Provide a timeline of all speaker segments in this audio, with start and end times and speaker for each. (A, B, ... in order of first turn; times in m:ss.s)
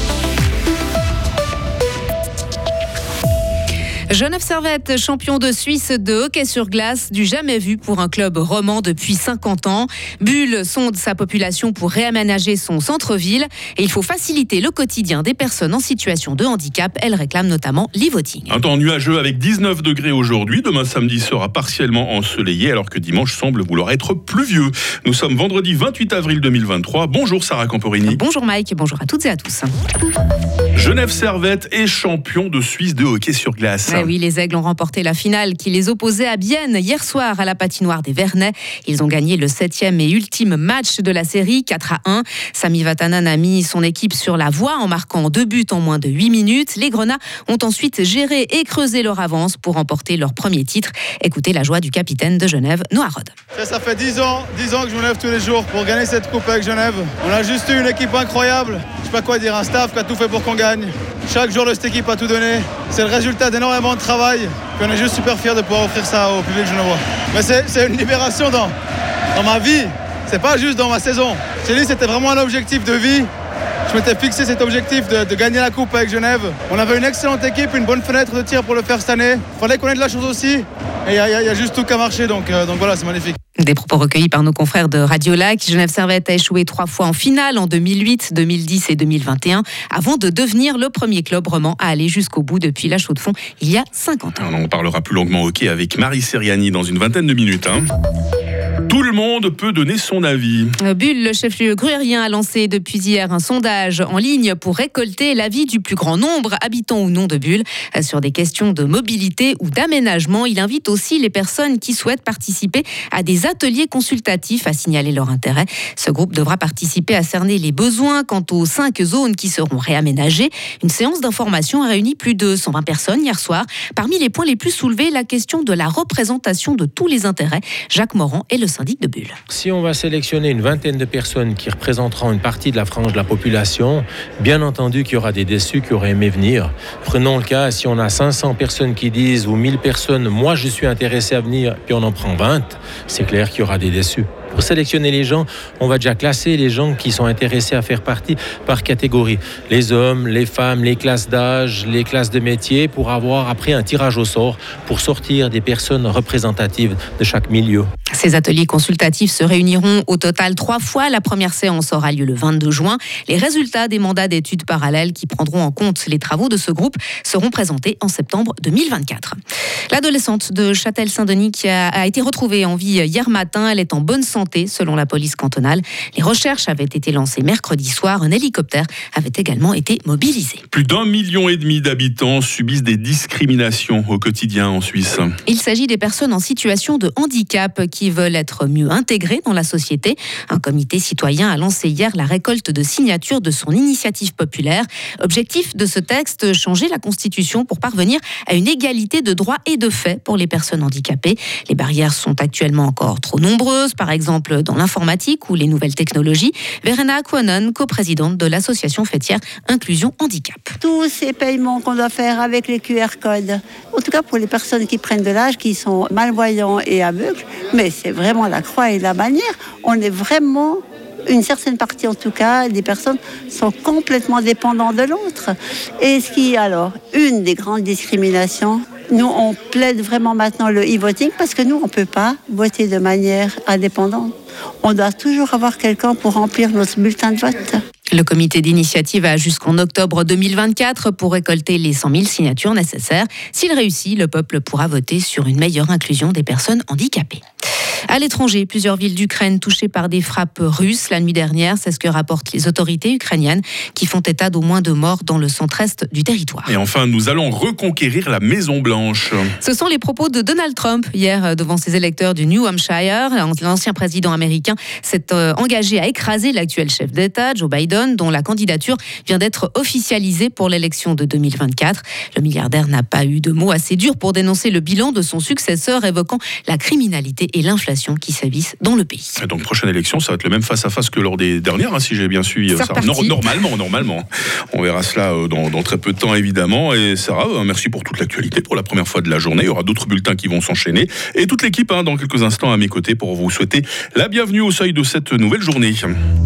0:04.1-0:18.5 A
0:18.5-0:28.2 B
0:28.0-0:29.7 A
0:30.8-0:34.1 B
0:33.9-0:53.3 A
0:53.6-1:08.7 C
1:09.4-1:13.3 C
1:13.9-1:23.4 C
1:23.6-1:34.4 A
1:34.4-1:37.9 B
1:38.8-1:40.8 B
1:40.8-2:09.4 A
2:09.5-2:37.9 D
2:38.1-2:49.4 A
2:49.9-3:00.6 A
3:00.7-3:05.4 B
3:05.5-3:30.7 A
3:30.8-3:57.8 E
3:58.1-4:07.4 A
4:08.1-4:16.7 A
4:16.7-4:19.5 B
4:19.6-4:39.4 A
4:39.4-4:56.1 B
4:42.8-4:43.4 A